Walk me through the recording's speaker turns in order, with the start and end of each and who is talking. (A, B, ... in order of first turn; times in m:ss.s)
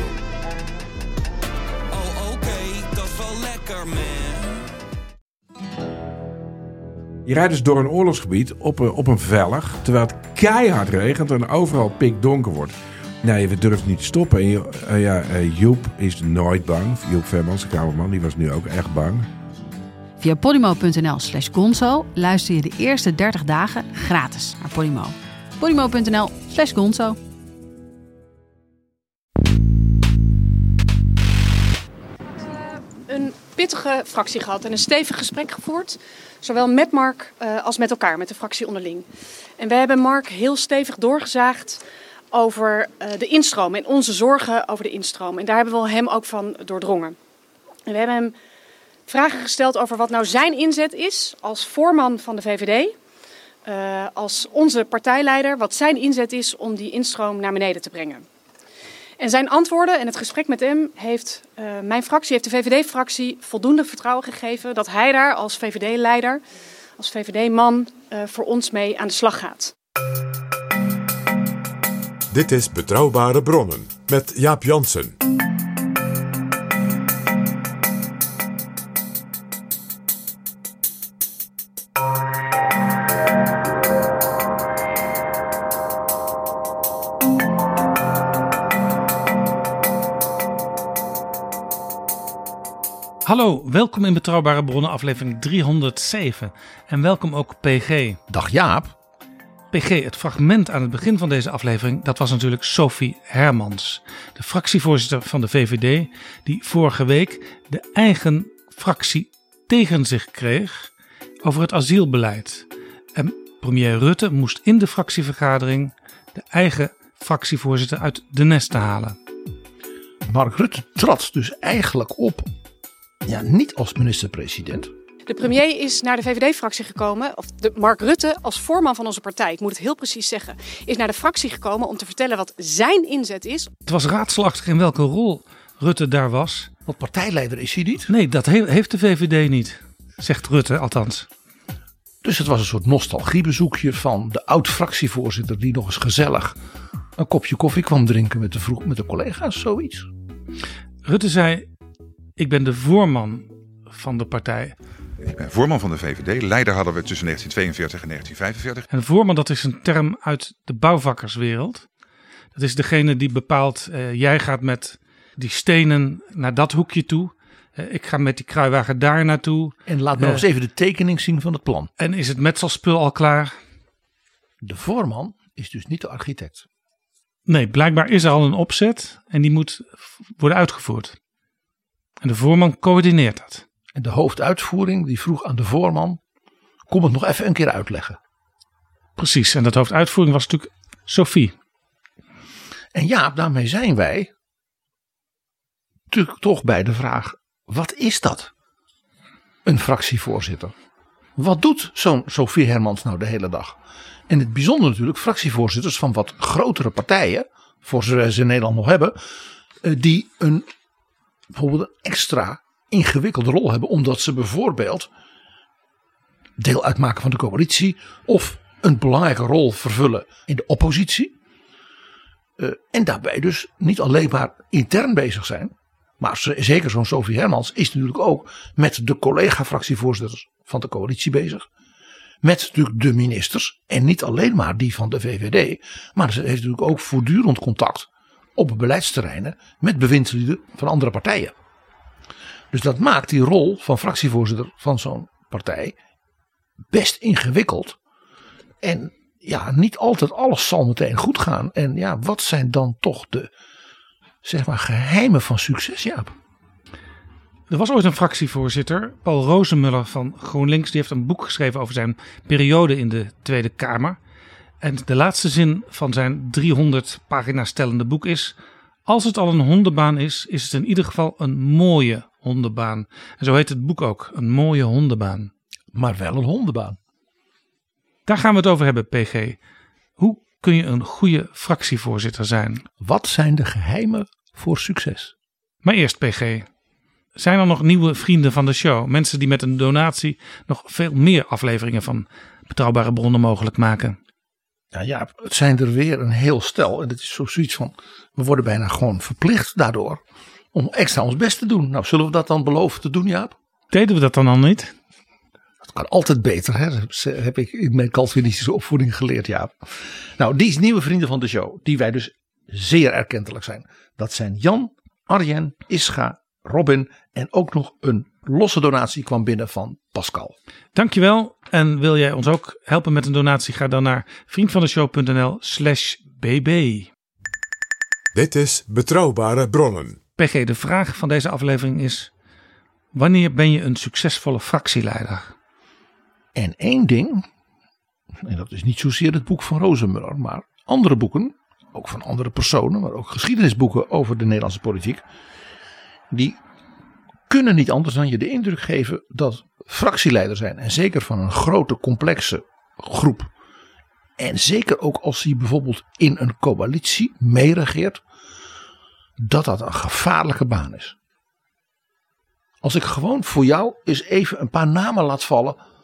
0:01.9-0:04.7 A
0:07.2-0:19.3 B
0:20.2-0:27.2 C
0:33.0-0:39.0 D
0:39.6-0:41.8 D
0:42.3-0:47.2 D
0:47.8-0:48.3 D
0:49.1-0:52.9 D
0:53.6-0:58.2 D
0:59.2-1:06.4 D
1:07.0-1:09.7 D
1:12.3-1:15.1 E
1:33.2-1:38.2 F
1:38.3-1:38.9 G
1:39.7-1:50.9 F
1:51.4-1:59.2 F
2:00.3-2:02.5 G
2:03.2-2:04.9 G
2:05.3-2:13.7 D
2:13.8-2:16.7 F
2:16.8-2:18.1 G
2:18.1-2:21.3 F
2:22.2-2:26.6 G
2:27.2-2:30.1 G
2:31.0-2:31.7 F
2:32.4-2:34.7 F
2:35.3-2:38.9 H
2:38.9-2:41.9 F
2:42.5-2:50.4 F
2:49.9-2:51.9 G
2:52.0-2:53.6 F
2:54.6-2:56.6 G
2:57.5-3:01.2 F
3:02.2-3:03.6 F
3:03.9-3:06.2 G
3:06.9-3:08.2 G
3:09.2-3:11.5 F
3:12.9-3:14.3 G
3:16.1-3:18.5 G
3:19.6-3:20.7 G
3:21.4-3:23.8 G
3:24.3-3:29.2 G
3:29.8-3:30.6 G
3:31.5-3:35.1 G
3:36.6-3:41.3 G
3:42.6-3:51.6 G
3:52.4-4:01.5 G
4:02.7-4:05.9 G
4:06.9-4:08.0 G
4:08.8-4:13.5 G
4:14.4-4:16.3 G
4:17.7-4:24.2 F
4:24.8-4:28.5 F
4:29.0-4:35.5 F
4:35.9-4:37.0 G
4:38.2-4:39.6 F
4:40.2-4:42.8 F
4:43.0-4:45.3 G
4:45.8-4:46.7 F
4:47.4-4:54.2 F
4:54.9-5:00.2 G
5:00.7-5:03.5 G
5:03.9-5:04.9 F
5:05.8-5:09.7 G
5:10.4-5:20.5 G
5:20.9-5:27.1 F
5:28.3-5:30.2 E
5:30.4-5:32.3 F
5:33.1-5:35.5 F
5:36.5-5:37.4 G
5:38.4-5:45.2 G
5:46.3-5:46.6 G
5:47.5-5:53.5 G
5:54.4-5:58.2 G
5:59.4-6:01.1 G
6:02.8-6:05.8 G